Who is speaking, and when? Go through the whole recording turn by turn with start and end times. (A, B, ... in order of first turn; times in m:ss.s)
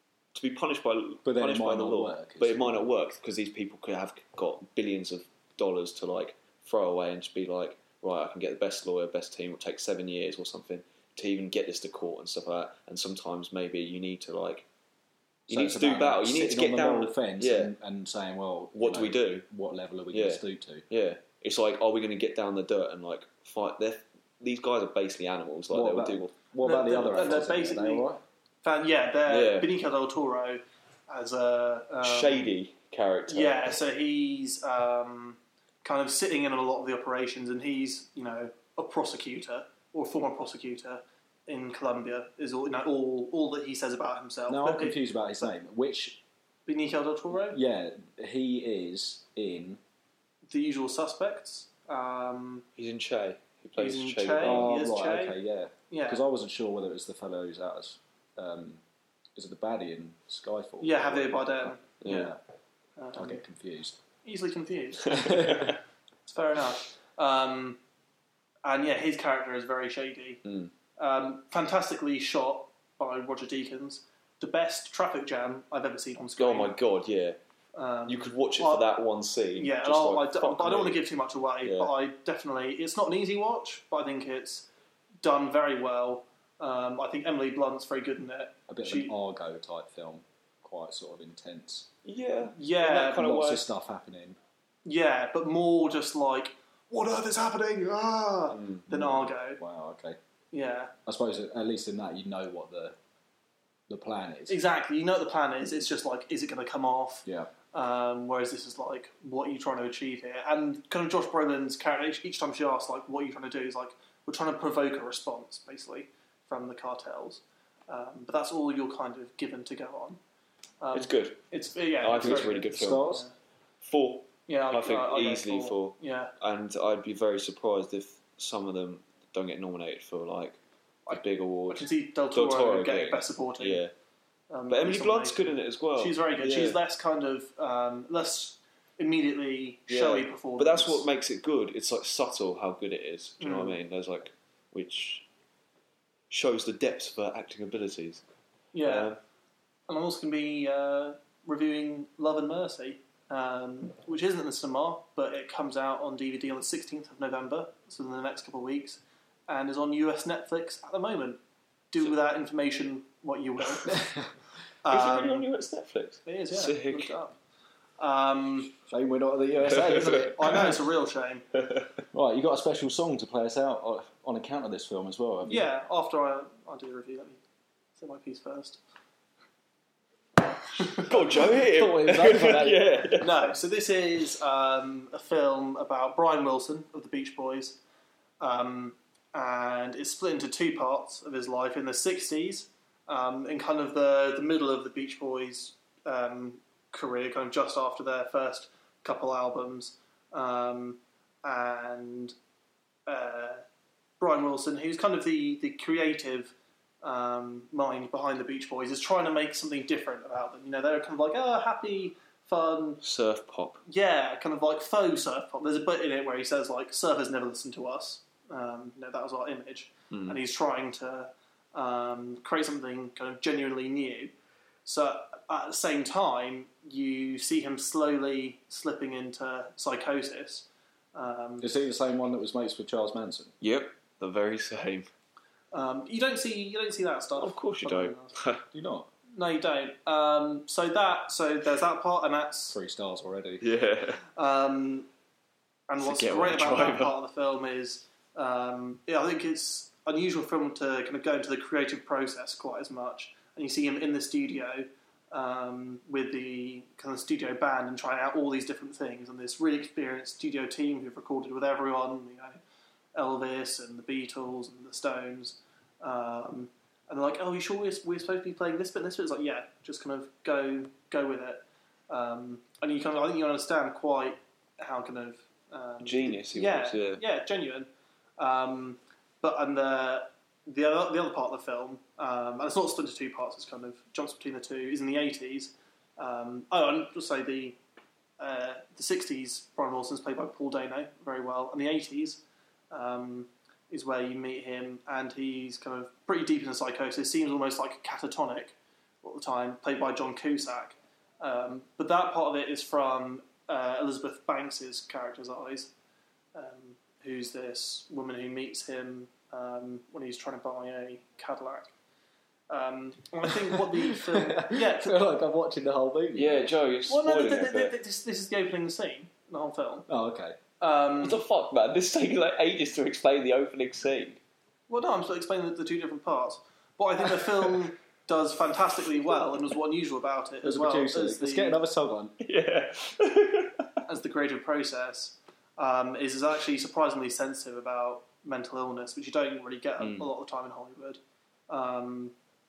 0:00.4-0:14.6 A
0:01.2-0:02.9 B
0:15.5-0:20.9 B
0:15.5-0:17.7 A
0:18.7-0:19.5 A
0:20.1-0:26.3 A
0:25.7-0:28.2 B
0:26.6-0:28.1 C
0:28.6-0:32.5 C
0:29.3-0:29.7 A
0:32.0-0:33.8 A
0:33.3-0:45.0 C
0:44.5-0:46.2 B
0:46.7-0:47.6 C
0:47.5-0:49.8 B
0:50.5-0:52.7 C
0:52.8-0:54.8 A
0:53.8-0:55.4 C
0:54.4-0:58.8 B
0:55.9-0:56.2 C
0:59.4-1:02.4 B
1:00.8-1:02.3 C
1:02.0-1:02.3 A
1:03.0-1:03.4 C
1:03.2-1:04.0 B
1:04.2-1:05.6 C
1:05.1-1:05.8 A
1:06.3-1:07.8 C
1:08.6-1:10.4 C
1:10.4-1:10.7 A
1:11.0-1:16.7 C
1:16.4-1:17.4 A
1:17.8-1:18.9 C
1:18.1-1:21.0 A
1:19.6-1:24.7 C
1:21.6-1:21.9 A
1:25.2-1:29.1 C
1:28.7-1:31.9 B
1:32.0-1:33.7 A
1:32.6-1:33.4 C
1:33.0-1:34.4 B
1:34.8-1:39.6 C
1:38.5-1:38.9 A
1:38.9-1:40.2 B
1:40.5-1:40.9 C
1:41.1-1:43.0 B
1:43.9-1:44.6 B
1:44.5-2:00.2 C
1:47.3-1:47.5 B
2:00.8-2:03.3 C
2:00.9-2:01.4 A
2:02.0-2:03.1 A
2:02.2-2:03.3 B
2:03.8-2:13.9 A
2:04.5-2:06.3 C
2:11.1-2:13.8 C
2:14.5-2:21.0 C
2:14.7-2:16.8 A
2:19.9-2:25.3 A
2:23.4-2:23.8 C
2:26.3-2:28.2 A
2:28.7-2:29.1 C
2:28.8-2:29.2 A
2:29.9-2:41.4 C
2:41.9-2:44.1 C
2:43.9-2:44.3 B
2:44.8-2:45.5 C
2:44.9-2:47.1 A
2:46.3-2:47.4 C
2:48.0-2:48.7 C
2:48.9-2:50.7 B
2:49.7-2:51.4 C
2:49.9-2:50.2 A
2:52.1-2:55.7 B
2:55.5-2:57.4 C
2:58.0-2:58.8 C
3:00.8-3:01.6 C
3:01.1-3:03.3 A
3:01.1-3:03.1 B
3:03.2-3:07.8 C
3:08.4-3:22.4 C
3:23.1-3:23.6 C
3:24.2-3:33.0 C
3:33.0-3:33.8 A
3:33.9-3:44.3 C
3:40.1-3:40.4 A
3:44.9-3:51.7 C
3:51.6-3:53.5 B
3:53.6-3:55.1 A
3:55.7-3:58.3 C
3:57.4-3:58.6 A
3:58.7-3:59.1 B
3:59.3-4:02.8 C
4:02.7-4:03.7 B
4:03.6-4:04.2 A
4:04.4-4:05.1 C
4:05.9-4:22.6 C
4:06.0-4:07.2 A
4:23.2-4:47.8 C
4:36.0-4:37.2 A
4:48.4-5:05.9 C
5:06.5-5:11.9 C
5:12.7-5:15.3 C
5:13.9-5:16.7 B
5:16.4-5:18.0 A
5:17.1-5:20.1 C
5:20.1-5:20.6 B
5:20.8-5:21.4 C
5:21.2-5:24.4 A
5:24.9-5:31.8 C
5:30.6-5:32.4 B
5:32.4-5:33.9 A
5:34.1-5:42.3 C
5:40.0-5:40.3 A